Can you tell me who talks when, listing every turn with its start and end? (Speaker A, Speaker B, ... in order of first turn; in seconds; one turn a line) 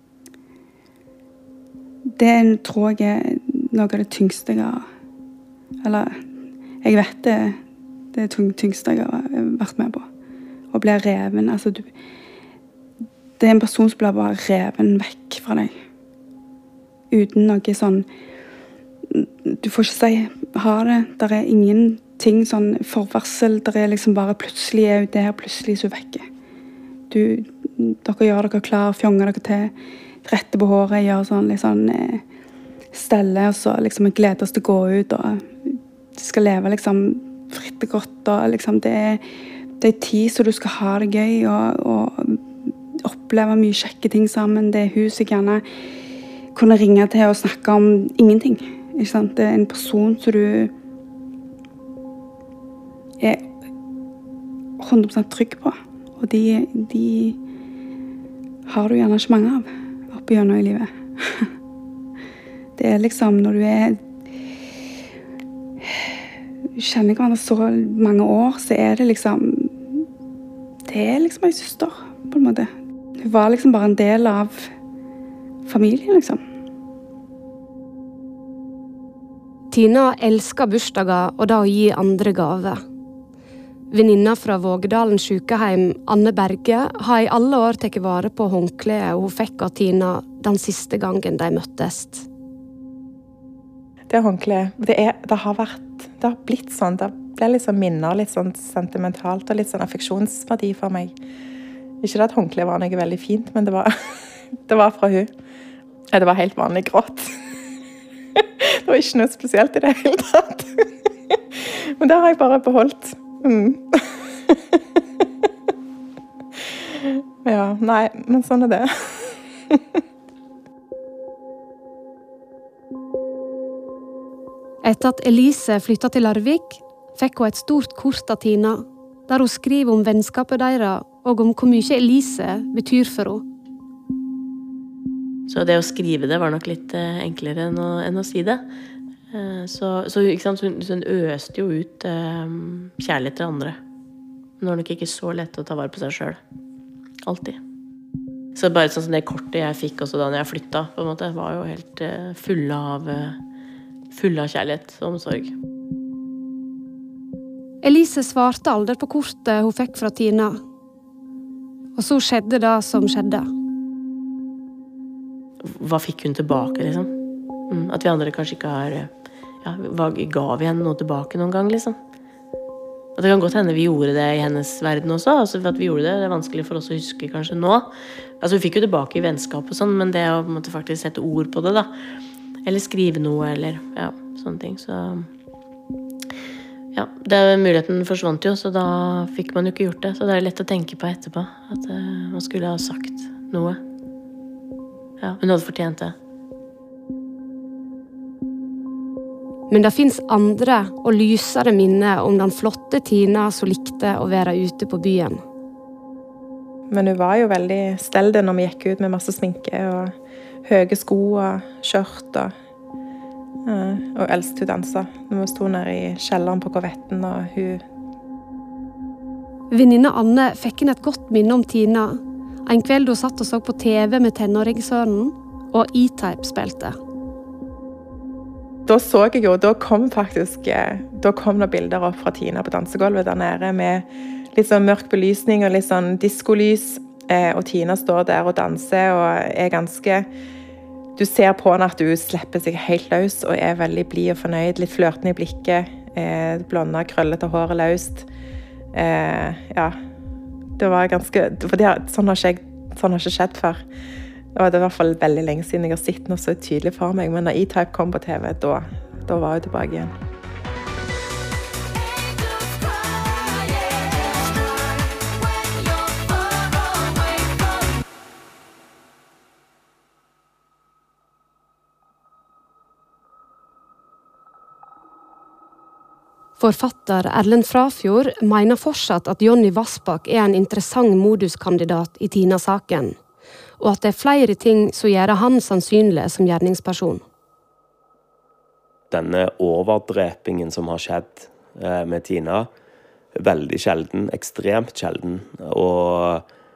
Speaker A: 2.0-4.9
Speaker A: 5.8-6.2
Speaker A: 6.8-7.6
Speaker A: 8.1-10.1
Speaker A: 10.7-11.9
Speaker A: 13.4-15.7
Speaker A: 17.1-18.1
Speaker A: 19.1-26.3
Speaker A: 27.1-32.2
Speaker A: 32.9-39.2
Speaker A: 39.8-42.4
Speaker A: 43.0-45.6
Speaker A: 46.5-50.7
Speaker A: 53.2-53.5
Speaker A: 54.8-57.4
Speaker A: 58.6-61.5
Speaker A: 62.8-64.0
Speaker A: 65.8-66.2
Speaker A: 66.7-70.0
Speaker A: 70.8-74.7
Speaker A: 75.7-76.4
Speaker B: 79.7-82.8
Speaker B: 83.9-92.3
Speaker C: 94.1-101.2
Speaker C: 102.0-104.0
Speaker C: 104.7-105.3
Speaker C: 106.1-107.3
Speaker C: 108.4-110.7
Speaker C: 111.6-114.6
Speaker C: 117.0-119.8
Speaker B: 124.8-133.4
Speaker D: 135.5-138.6
Speaker D: 139.3-143.8
Speaker D: 144.6-146.4
Speaker D: 147.2-147.6
Speaker D: 148.5-153.4
Speaker D: 154.1-155.5
Speaker B: 157.8-160.6
Speaker B: 161.9-163.5
Speaker D: 165.6-167.1
Speaker D: 167.7-169.1
Speaker D: 169.6-172.0
Speaker D: 173.1-181.9
Speaker D: 182.6-185.3
Speaker D: 186.9-193.8
Speaker D: 195.2-196.1
Speaker B: 199.7-205.4
Speaker C: 206.9-210.1
Speaker C: 210.7-212.5
Speaker C: 213.7-217.8
Speaker B: 219.7-227.0
Speaker C: 228.8-240.3
Speaker C: 241.2-248.3
Speaker C: 248.9-249.9
Speaker C: 250.8-253.8
Speaker C: 254.5-260.1
Speaker B: 276.6-283.1
Speaker B: 283.8-287.2
Speaker E: 289.1-292.7
Speaker E: 293.3-296.4